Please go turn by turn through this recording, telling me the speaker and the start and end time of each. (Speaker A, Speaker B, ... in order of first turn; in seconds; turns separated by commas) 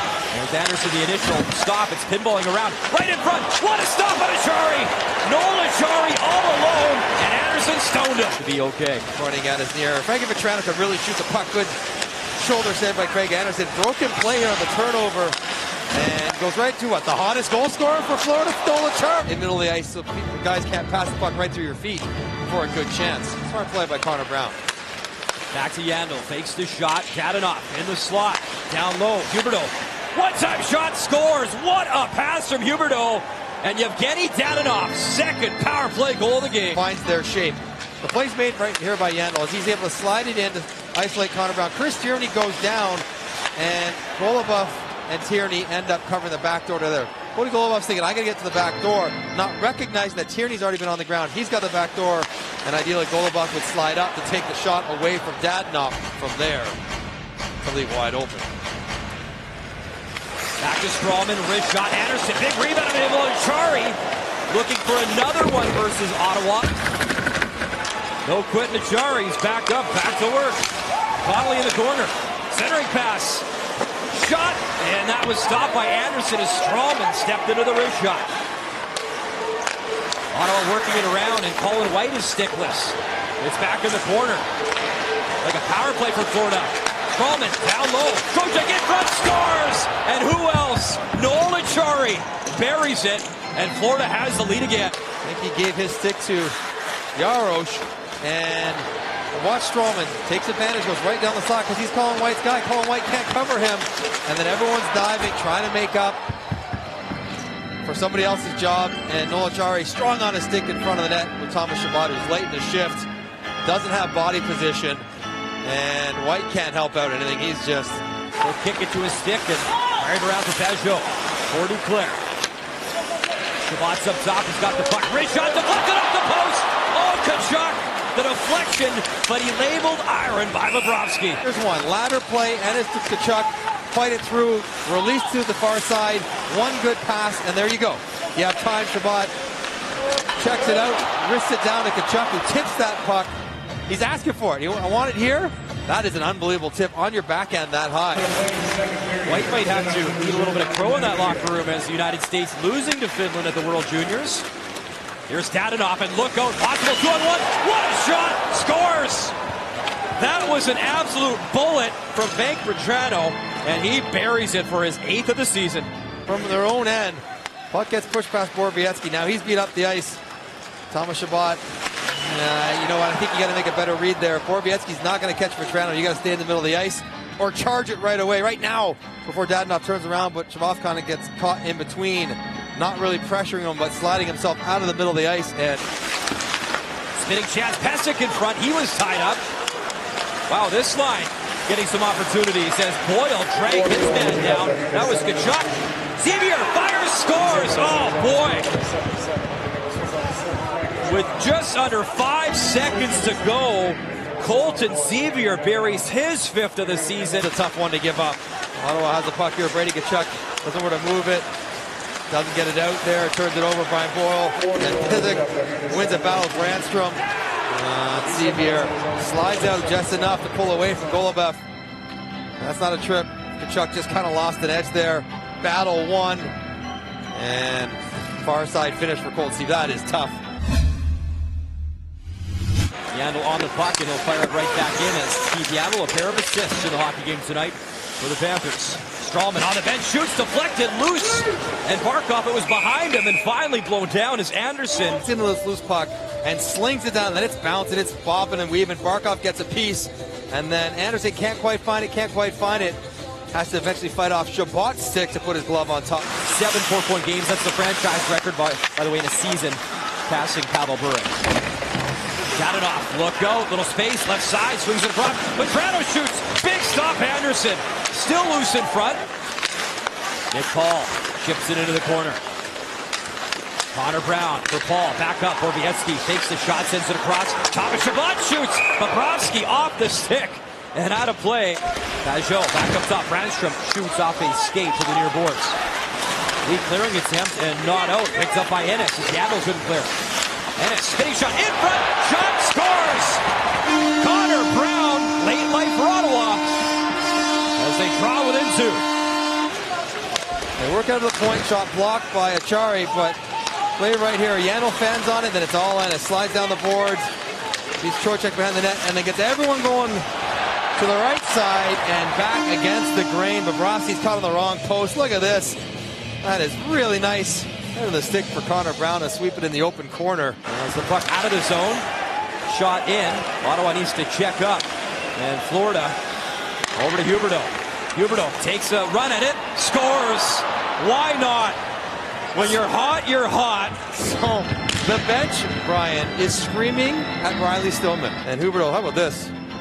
Speaker A: 0.3-9.1, Speaker B: 9.1-11.8, Speaker B: 12.3-15.4, Speaker B: 15.9-24.6, Speaker A: 25.5-36.8, Speaker B: 36.7-56.8, Speaker B: 57.6-58.5, Speaker A: 60.6-66.8, Speaker A: 68.2-70.7, Speaker A: 71.2-73.5, Speaker A: 74.1-78.3, Speaker A: 80.3-84.5, Speaker A: 85.4-95.0, Speaker B: 95.2-96.6, Speaker B: 97.2-106.2, Speaker B: 107.8-113.1, Speaker B: 113.6-115.0, Speaker B: 115.6-118.0, Speaker A: 118.4-122.2, Speaker A: 123.7-131.4, Speaker B: 131.4-139.3, Speaker B: 140.4-143.3, Speaker B: 143.9-148.3, Speaker A: 149.2-154.5, Speaker A: 155.3-159.4, Speaker A: 160.2-165.9, Speaker B: 166.3-170.2, Speaker B: 170.9-171.6, Speaker B: 172.2-185.9, Speaker A: 187.1-189.4, Speaker A: 190.5-198.7, Speaker A: 201.0-207.5, Speaker B: 207.4-211.5, Speaker B: 212.3-221.6, Speaker B: 222.6-226.5, Speaker B: 227.3-230.4, Speaker A: 233.1-245.2, Speaker B: 245.2-253.0, Speaker B: 253.5-256.3, Speaker A: 256.4-261.4, Speaker A: 262.5-269.3, Speaker A: 270.5-272.4, Speaker A: 273.9-285.8, Speaker A: 286.6-290.1, Speaker A: 290.8-293.4, Speaker A: 294.2-296.7, Speaker A: 297.8-299.1, Speaker B: 300.8-303.4, Speaker B: 304.0-307.3, Speaker B: 308.0-310.3, Speaker B: 311.0-315.8, Speaker B: 316.4-320.6, Speaker A: 320.7-322.1, Speaker A: 322.7-326.2, Speaker A: 327.0-331.8, Speaker A: 332.5-334.0, Speaker B: 334.1-339.5